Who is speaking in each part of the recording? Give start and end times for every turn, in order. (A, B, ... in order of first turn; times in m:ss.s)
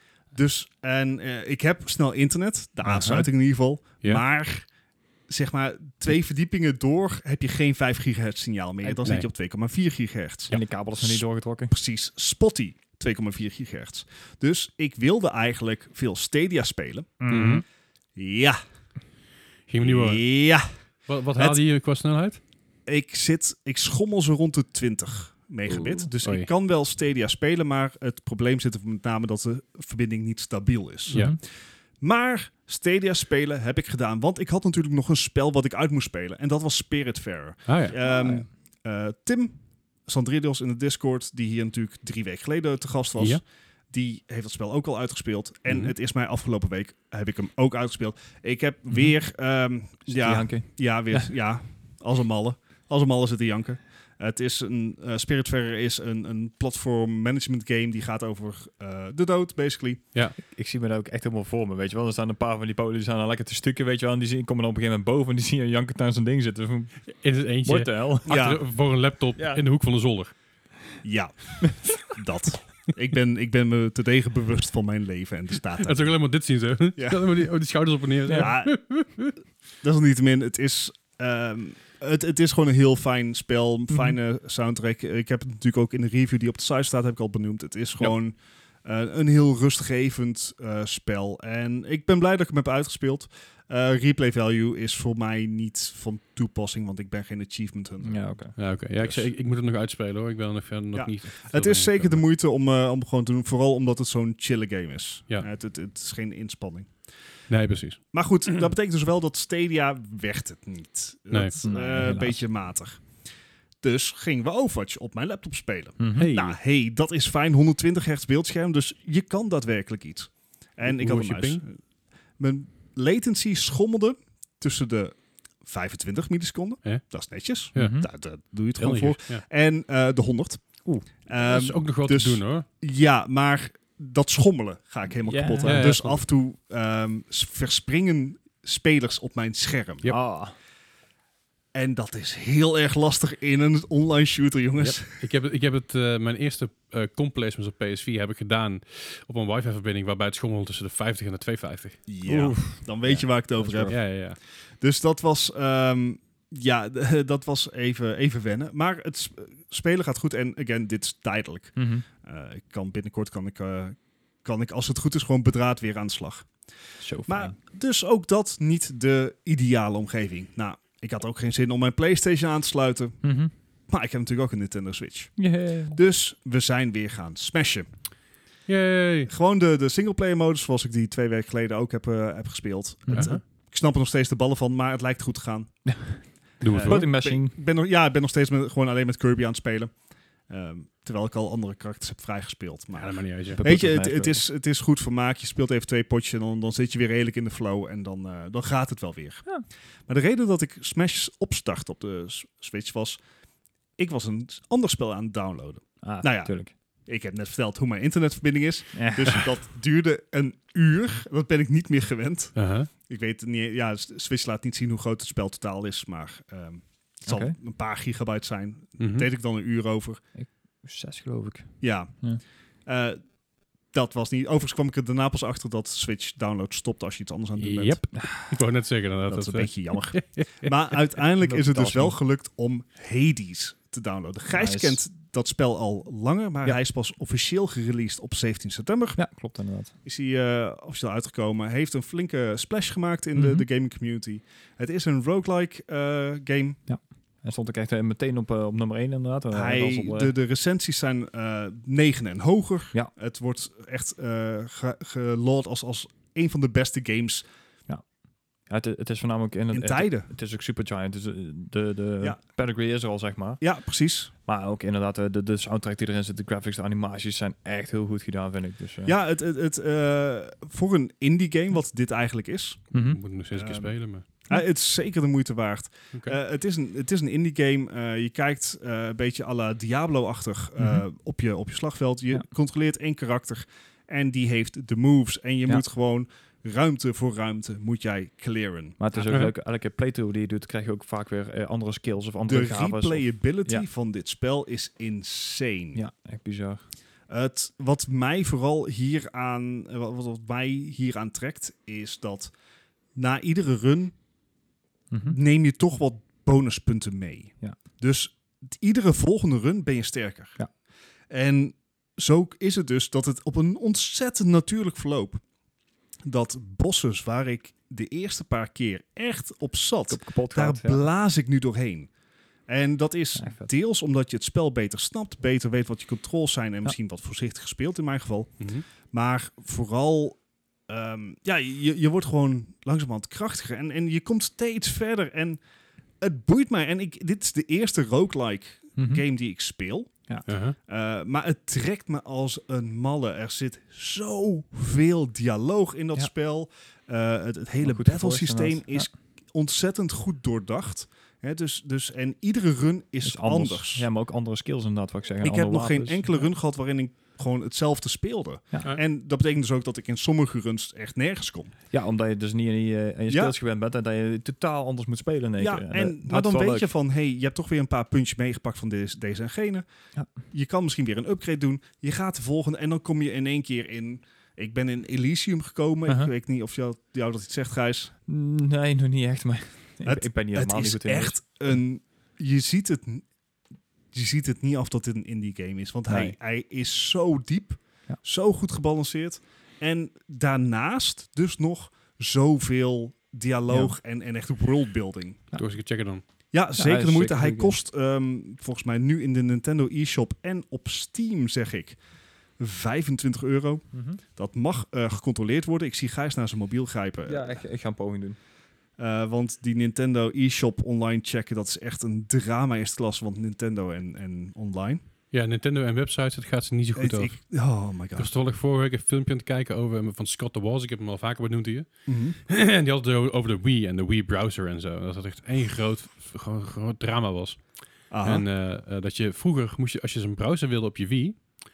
0:00.3-0:04.7 A
0:02.8-0:03.3 B
0:05.3-0:17.3 A
0:10.5-0:11.7 B
0:17.2-0:17.6 B
0:17.3-0:17.6 C
0:18.2-0:18.6 A
0:19.7-0:20.2 C
0:19.8-0:20.7 A
0:21.1-0:22.4 C
0:22.9-0:31.3 A
0:25.7-0:26.5 C
0:31.1-0:31.4 B
0:32.0-1:00.0 A
0:37.7-0:38.0 C
0:38.0-0:38.5 B
0:45.7-0:45.9 C
0:50.1-0:51.3 B
1:00.4-1:07.1 B
1:07.2-1:10.3 C
1:07.6-1:08.4 B
1:08.3-1:08.6 A
1:09.4-1:09.6 B
1:11.0-1:16.1 A
1:15.8-1:19.3 C
1:17.0-1:17.2 A
1:18.3-1:18.5 B
1:18.3-1:18.8 A
1:19.8-1:38.2 A
1:23.9-1:24.2 B
1:38.0-1:38.6 B
1:38.6-1:42.2 C
1:39.0-1:39.3 A
1:40.9-1:46.9 A
1:47.5-1:48.0 C
1:48.1-1:53.0 A
1:51.6-1:52.4 B
1:53.8-2:01.8 A
1:56.0-1:56.3 B
1:56.2-1:56.6 C
2:00.8-2:01.6 C
2:02.4-2:10.7 A
2:07.7-2:08.0 C
2:07.8-2:08.1 B
2:08.8-2:09.4 C
2:11.3-2:20.1 A
2:11.4-2:12.7 C
2:15.3-2:15.9 B
2:15.6-2:16.2 C
2:20.1-2:20.5 B
2:21.7-2:25.2 A
2:25.1-2:32.0 C
2:32.1-2:34.2 A
2:32.2-2:34.0 B
2:33.9-2:34.4 C
2:34.8-2:46.5 A
2:41.8-2:42.0 B
2:47.0-2:47.6 B
2:47.3-2:53.2 A
2:53.2-2:53.5 B
2:53.9-2:57.9 A
2:55.4-2:56.0 B
2:58.7-2:59.3 C
2:59.3-3:05.8 A
3:03.1-3:03.3 B
3:03.1-3:03.4 C
3:05.9-3:07.6 B
3:06.6-3:07.0 C
3:06.7-3:09.9 A
3:10.5-3:19.5 A
3:13.0-3:13.6 C
3:13.5-3:14.4 B
3:20.1-3:23.2 A
3:24.0-3:26.5 A
3:26.0-3:26.7 B
3:27.0-3:40.2 A
3:28.9-3:29.5 B
3:32.6-3:32.9 C
3:37.3-3:37.6 B
3:39.0-3:39.3 C
3:40.4-3:42.4 B
3:41.8-3:42.2 A
3:42.8-3:43.2 A
3:43.9-3:48.0 A
3:47.6-3:50.7 C
3:49.3-3:59.2 A
3:51.4-3:52.2 B
3:54.5-3:55.0 B
3:59.2-3:59.9 B
4:00.0-4:06.8 A
4:03.4-4:03.7 B
4:06.9-4:10.3 B
4:09.5-4:17.4 A
4:18.7-4:23.6 B
4:19.7-4:20.3 A
4:23.6-4:24.3 A
4:24.5-4:29.1 B
4:29.0-4:32.8 A
4:32.9-4:33.2 B
4:33.0-4:34.2 C
4:33.6-4:49.0 A
4:40.8-4:41.0 B
4:49.0-4:53.9 B
4:52.5-4:56.0 A
4:56.0-4:56.8 B
4:57.3-5:02.5 A
5:03.2-5:04.1 A
5:05.1-5:05.4 B
5:05.3-5:10.6 A
5:11.3-5:15.4 A
5:16.2-5:22.1 A
5:20.1-5:21.0 B
5:22.7-5:35.6 A
5:23.4-5:23.7 B
5:36.2-5:40.2 A
5:39.0-5:39.2 B
5:40.5-5:40.8 C
5:40.9-5:54.1 A
5:47.8-5:49.1 B
5:53.2-5:56.5 B
5:55.4-6:01.7 A
6:01.9-6:06.9 B
6:03.3-6:03.5 A
6:05.6-6:09.9 A
6:10.5-6:18.1 A
6:18.3-6:21.8 B
6:20.0-6:23.3 A
6:24.1-6:35.4 A
6:26.1-6:26.4 B
6:33.7-6:33.9 B
6:35.5-6:36.2 C
6:36.5-6:42.0 A
6:36.8-6:37.8 B
6:42.6-6:47.6 A
6:43.9-6:44.2 B
6:47.3-6:48.4 B
6:49.0-6:55.0 A
6:55.3-6:57.6 C
6:57.0-6:58.3 A
6:58.2-7:11.5 C
7:02.1-7:02.4 A
7:08.1-7:08.4 A